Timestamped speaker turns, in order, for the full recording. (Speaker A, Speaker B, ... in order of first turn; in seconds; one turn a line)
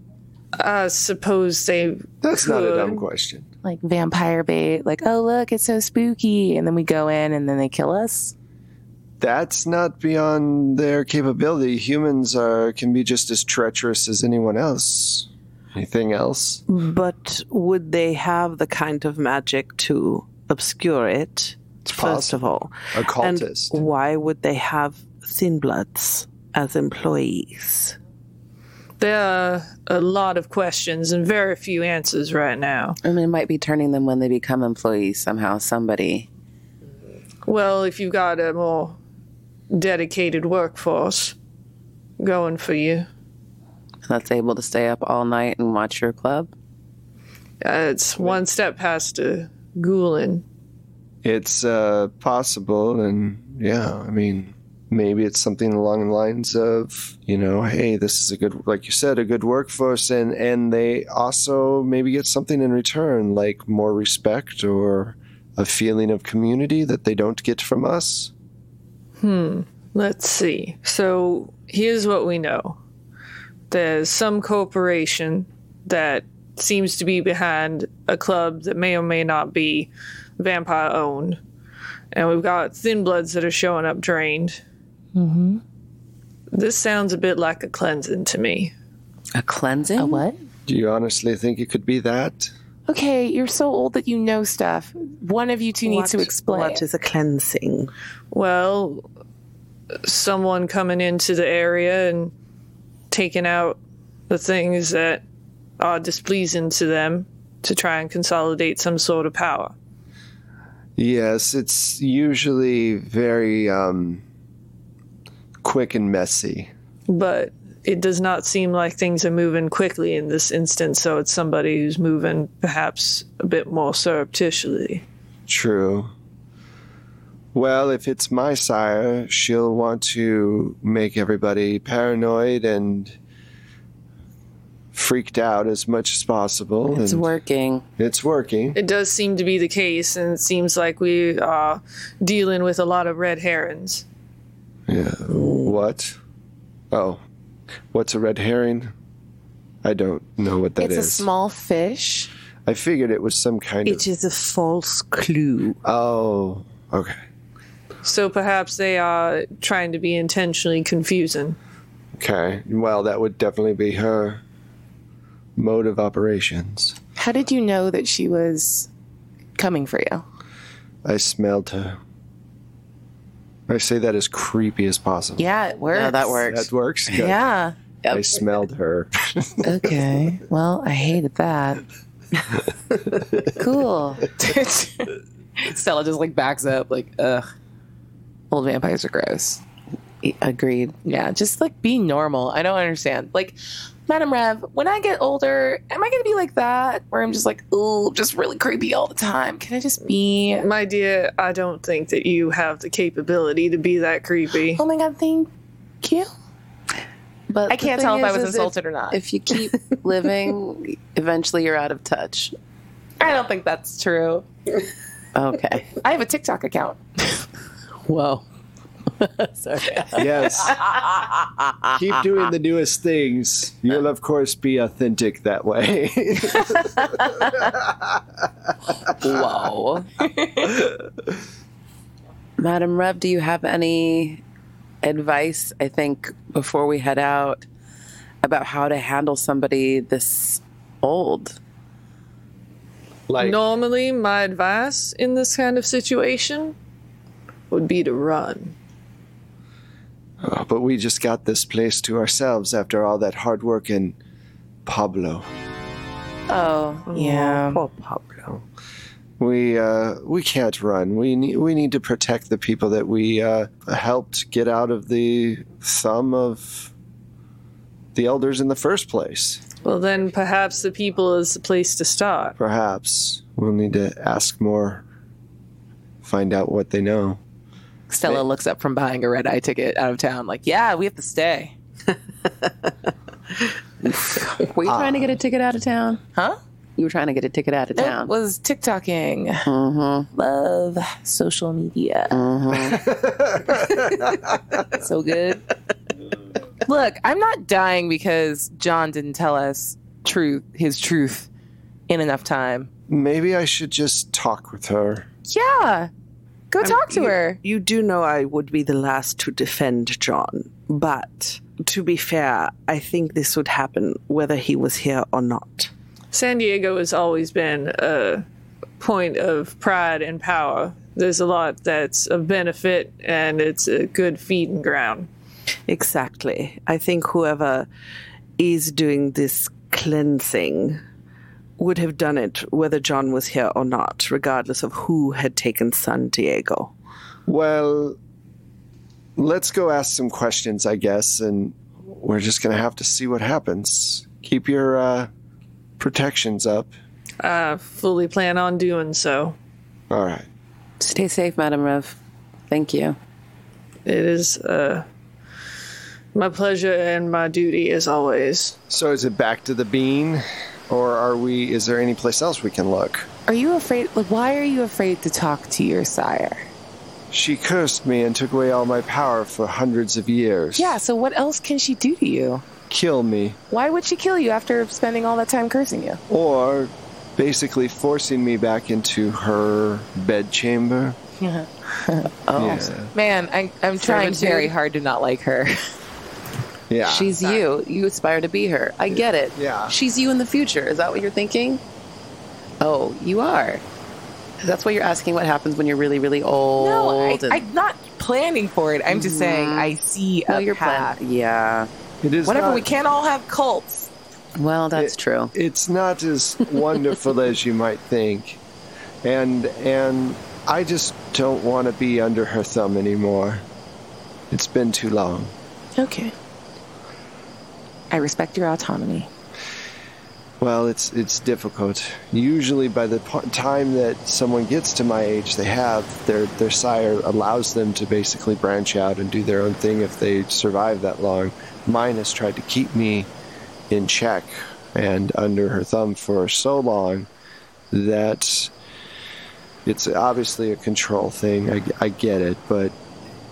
Speaker A: 0.6-3.0
Speaker B: 2.2-3.5
Speaker C: 3.6-8.3
Speaker B: 9.2-16.6
Speaker D: 16.7-28.0
Speaker B: 21.9-22.4
Speaker B: 22.9-23.8
Speaker A: 29.0-33.0
Speaker E: 33.0-36.3
Speaker A: 37.5-39.0
Speaker A: 39.7-41.4
Speaker A: 42.2-43.1
Speaker E: 44.1-46.5
Speaker A: 47.6-50.4
Speaker B: 51.2-68.3
Speaker A: 69.2-72.8
Speaker A: 73.7-81.4
Speaker A: 82.1-84.6
Speaker C: 85.2-85.6
Speaker A: 86.5-88.7
Speaker E: 89.4-90.3
Speaker C: 90.0-90.4
Speaker B: 90.7-92.5
Speaker C: 92.9-96.8
Speaker D: 95.8-97.9
Speaker A: 98.3-99.1
Speaker A: 100.0-102.3
Speaker A: 103.1-105.2
Speaker A: 105.8-109.7
Speaker B: 111.0-114.2
Speaker B: 115.6-116.7
Speaker A: 117.1-125.0
Speaker B: 125.5-126.1
Speaker B: 127.5-133.2
Speaker B: 134.9-137.3
Speaker E: 136.9-137.8
Speaker B: 138.0-138.8
Speaker A: 138.8-144.1
Speaker B: 144.9-146.2
Speaker D: 145.3-145.8
Speaker B: 146.9-147.2
Speaker B: 147.9-148.9
Speaker B: 149.8-151.3
Speaker C: 150.8-152.3
Speaker B: 152.7-154.1
Speaker D: 153.8-155.8
Speaker B: 155.8-157.2
Speaker A: 158.0-161.6
Speaker B: 162.2-164.4
Speaker B: 165.6-167.0
Speaker C: 167.2-168.9
Speaker C: 169.6-170.2
Speaker B: 171.1-172.0
Speaker B: 173.7-175.4
Speaker C: 175.4-176.5
Speaker E: 175.9-176.7
Speaker B: 176.5-177.4
Speaker C: 177.1-177.7
Speaker E: 178.0-178.4
Speaker B: 178.1-179.8
Speaker C: 179.6-181.8
Speaker C: 183.6-187.5
Speaker C: 188.5-189.6
Speaker E: 190.2-190.9
Speaker C: 191.1-193.6
Speaker C: 194.1-200.7
Speaker A: 200.6-204.8
Speaker C: 204.8-205.5
Speaker C: 206.0-206.3
Speaker E: 207.5-212.6
Speaker C: 207.7-209.2
Speaker C: 213.2-214.5
Speaker E: 215.3-215.9
Speaker C: 216.0-217.4
Speaker D: 218.1-218.5
Speaker D: 219.2-221.4
Speaker B: 220.2-220.8
Speaker B: 221.9-228.2
Speaker C: 229.2-230.8
Speaker E: 229.3-229.8
Speaker E: 232.6-234.4
Speaker E: 235.0-237.7
Speaker E: 238.4-241.6
Speaker B: 243.3-243.6
Speaker A: 243.4-246.8
Speaker A: 247.7-248.8
Speaker B: 250.4-254.2
Speaker B: 254.8-255.5
Speaker C: 256.5-257.8
Speaker D: 257.2-258.6
Speaker B: 259.4-266.9
Speaker B: 268.1-269.6
Speaker A: 269.8-272.6
Speaker B: 272.6-275.0
Speaker B: 276.2-277.4
Speaker C: 278.1-281.8
Speaker D: 282.6-282.9
Speaker E: 284.6-286.2
Speaker B: 284.9-285.3
Speaker E: 287.0-288.3
Speaker C: 287.9-289.7
Speaker E: 289.7-290.3
Speaker C: 290.3-292.4
Speaker E: 292.3-293.0
Speaker B: 292.7-294.6
Speaker C: 294.9-295.6
Speaker C: 296.9-301.5
Speaker C: 302.1-302.9
Speaker B: 303.1-305.3
Speaker C: 305.5-306.1
Speaker C: 306.7-307.6
Speaker D: 306.8-315.9
Speaker A: 316.3-318.4
Speaker A: 319.0-325.3
Speaker D: 325.9-327.9
Speaker D: 328.6-331.0
Speaker D: 331.8-336.9
Speaker B: 337.5-338.2
Speaker B: 339.4-345.3
Speaker B: 346.0-346.9
Speaker A: 347.4-349.6
Speaker B: 350.1-350.5
Speaker E: 351.0-352.2
Speaker E: 352.7-353.2
Speaker A: 354.1-355.1
Speaker A: 356.3-358.8
Speaker B: 358.9-363.3
Speaker C: 363.5-366.7
Speaker B: 367.3-371.0
Speaker C: 370.8-372.6
Speaker B: 372.9-373.6
Speaker C: 373.7-376.2
Speaker B: 376.3-381.2
Speaker C: 381.4-382.4
Speaker E: 382.5-382.9
Speaker B: 382.6-383.1
Speaker C: 383.1-385.8
Speaker E: 384.0-384.7
Speaker B: 386.9-387.4
Speaker E: 387.0-391.8
Speaker B: 389.6-389.9
Speaker E: 392.8-393.8
Speaker E: 394.6-397.6
Speaker C: 396.8-401.2
Speaker E: 399.1-400.0
Speaker E: 400.5-401.9
Speaker B: 402.2-402.9
Speaker C: 402.4-404.1
Speaker E: 404.6-405.5
Speaker B: 404.9-408.6
Speaker B: 409.2-413.6
Speaker B: 414.5-415.5
Speaker C: 416.0-416.4
Speaker C: 418.1-419.3
Speaker B: 420.6-433.3
Speaker B: 433.9-437.3
Speaker B: 437.9-438.7
Speaker B: 439.9-442.9